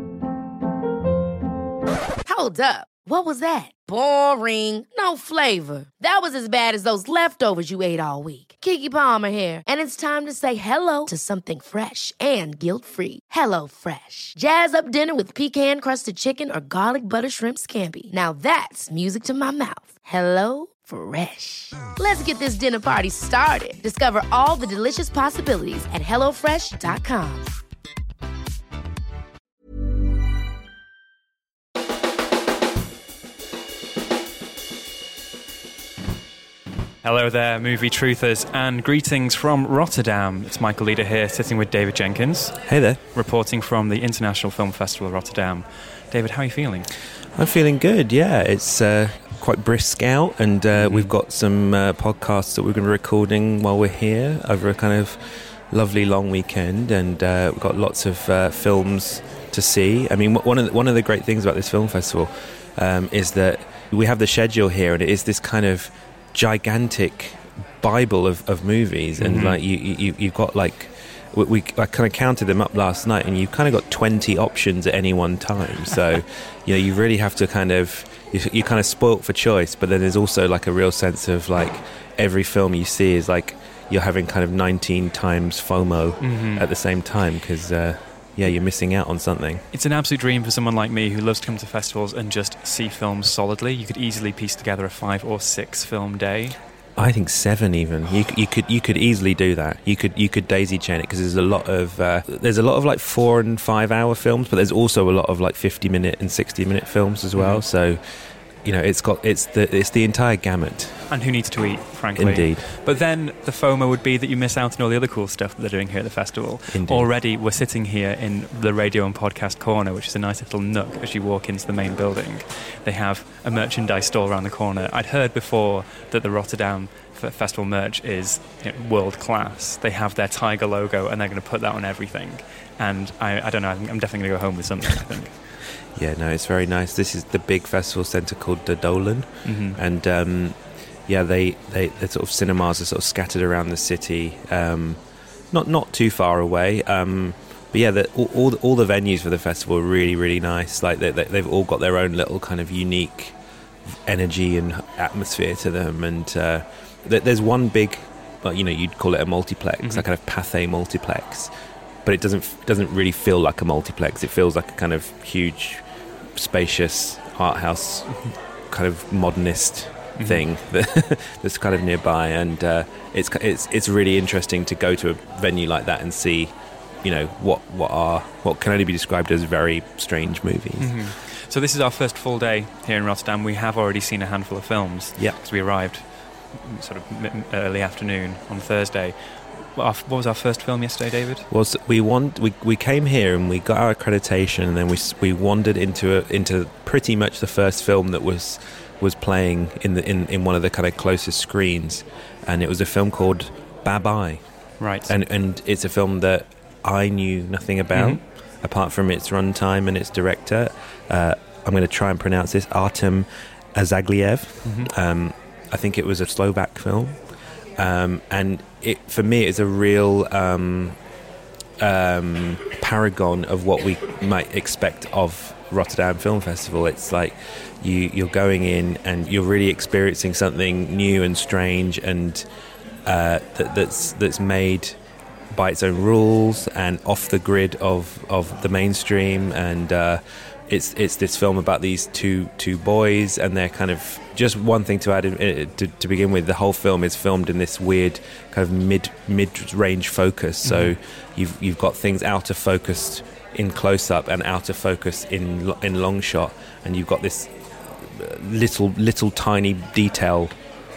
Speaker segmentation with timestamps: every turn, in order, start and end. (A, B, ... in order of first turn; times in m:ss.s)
0:02.2-0:27.5 A
0:37.0-0:42.6 B
0:42.7-0:43.0 C
0:43.1-0:46.9 B
0:47.3-1:29.6 C
0:50.7-0:51.1 B
1:09.2-1:09.6 B
1:26.2-1:26.7 B
1:29.7-1:36.6 B
1:37.0-1:48.0 C
1:47.3-1:47.6 B
1:48.6-1:51.0 C
1:51.1-2:15.3 B
1:52.2-1:52.7 C
1:56.7-1:57.1 C
2:15.9-2:25.0 C
2:19.4-2:19.8 B
2:25.5-2:41.5 C
2:42.0-3:01.1 C
2:50.2-2:50.4 B
3:00.8-3:11.5 B
3:11.5-3:24.4 C
3:24.8-3:25.1 B
3:25.0-3:37.2 C
3:27.9-3:28.2 B
3:34.6-3:34.9 B
3:37.8-3:41.0 C
3:41.8-3:52.4 C
3:53.0-3:55.0 C
3:55.5-4:20.6 C
4:10.6-4:11.0 B